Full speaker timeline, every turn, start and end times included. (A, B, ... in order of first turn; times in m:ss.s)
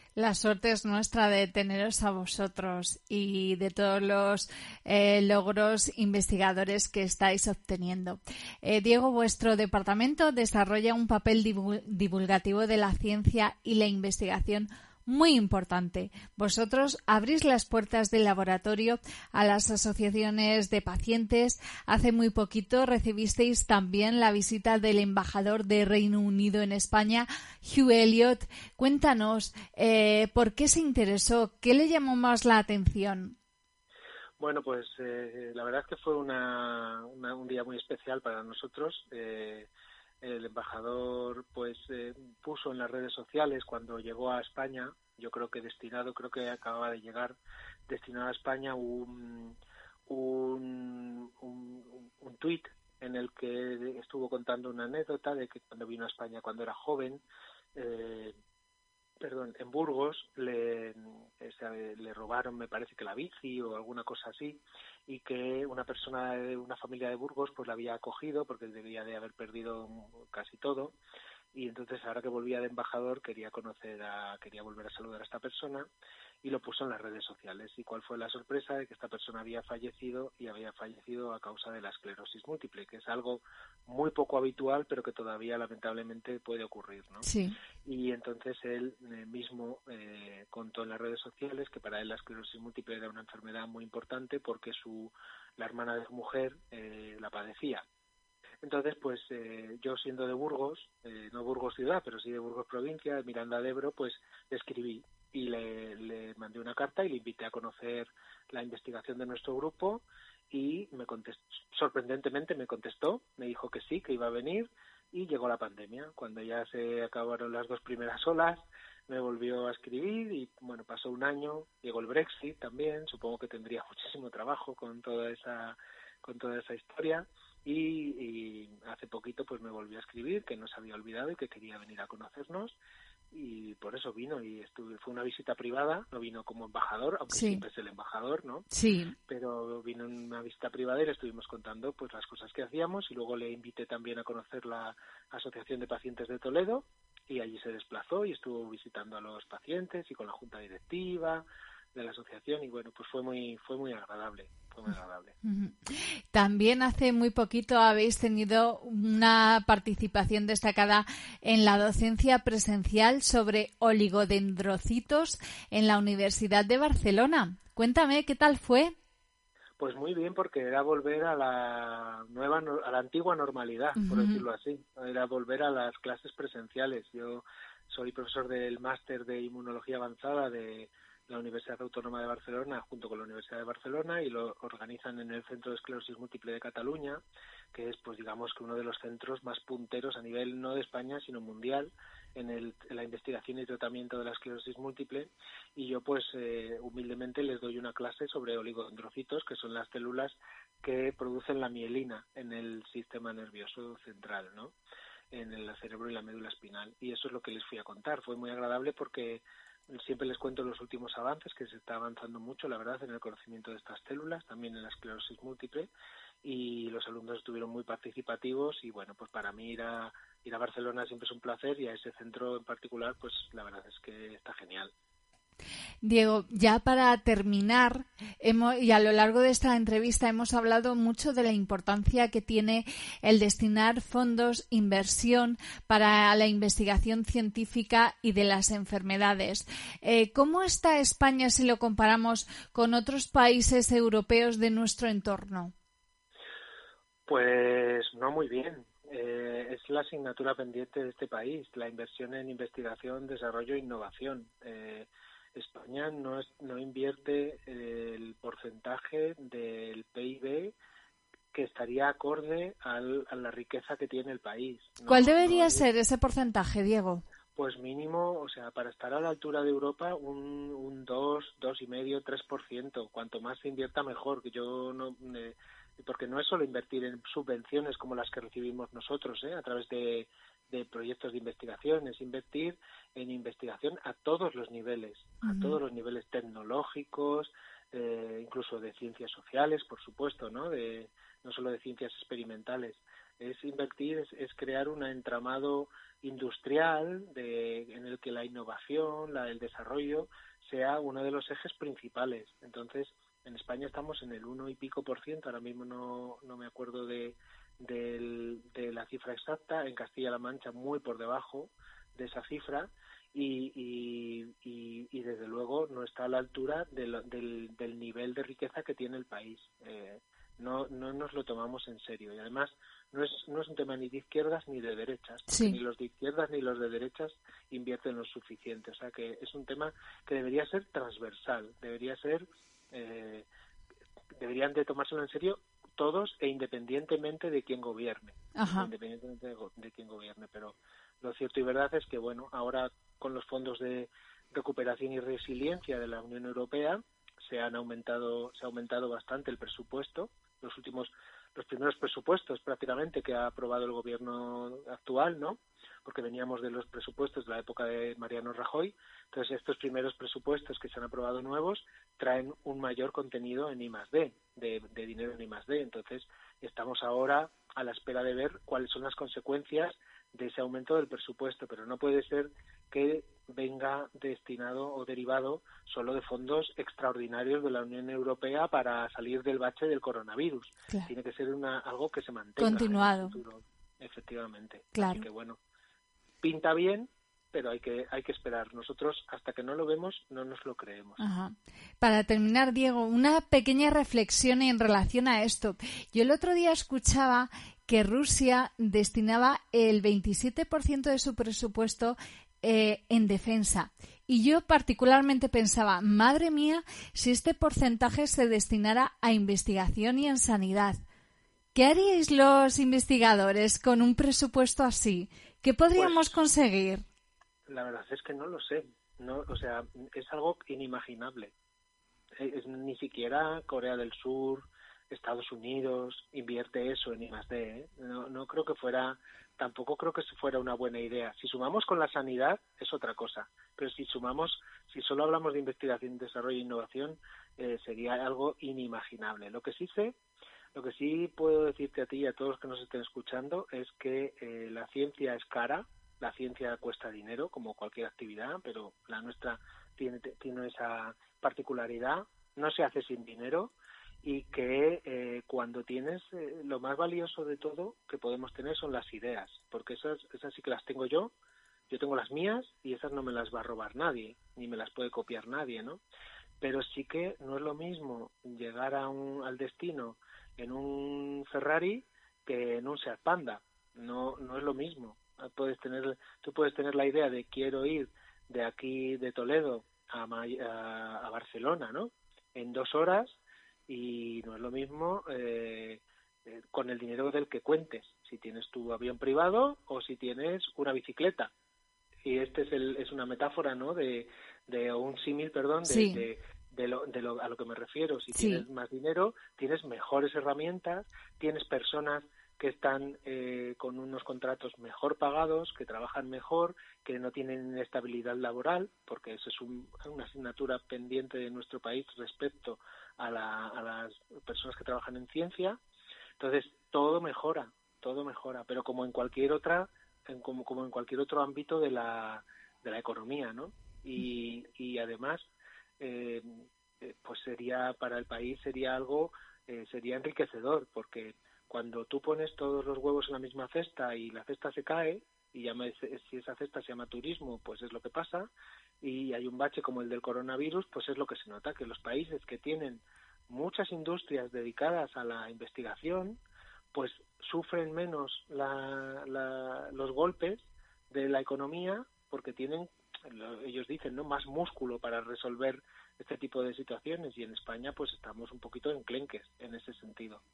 0:00.2-0:33.4 A
0:34.4-0:39.7 B
0:40.2-0:47.4 B
0:47.9-0:49.6 B
0:50.1-0:57.2 B
0:57.7-0:58.3 B
0:59.2-1:10.9 B
1:11.5-1:15.9 B
1:16.4-1:27.3 B
1:27.2-1:27.5 A
1:27.8-1:37.8 B
1:38.6-2:12.8 B
2:13.3-2:18.7 B
2:17.3-2:17.6 A
2:18.7-2:19.1 A
2:19.3-2:31.4 B
2:31.9-2:35.3 B
2:35.4-2:48.9 A
2:49.8-3:07.2 B
2:54.0-2:54.4 A
3:07.7-3:24.7 B
3:25.3-3:29.4 B
3:29.9-3:35.9 B
3:36.4-3:44.9 B
3:46.0-4:05.7 A
4:07.3-4:20.7 B
4:21.5-4:25.8 B
4:25.0-4:27.2 A
4:27.6-5:33.4 B
4:45.4-4:45.8 A
5:25.5-5:25.8 A
5:34.4-6:25.6 B
5:38.6-5:38.9 A
6:22.6-6:23.4 A
6:24.9-6:25.3 A
6:26.4-6:31.2 B
6:31.2-6:51.0 A
6:51.7-6:57.0 A
6:55.9-6:56.3 B
6:57.7-7:01.5 B
7:02.4-7:20.2 B
7:20.7-7:41.3 B
7:41.9-7:46.0 B
7:46.6-8:11.5 B
8:12.2-8:35.8 B
8:15.8-8:16.2 A
8:18.3-8:18.6 A
8:36.4-8:45.5 B
8:46.0-8:58.5 B
8:59.0-9:06.4 B
9:06.9-9:20.4 B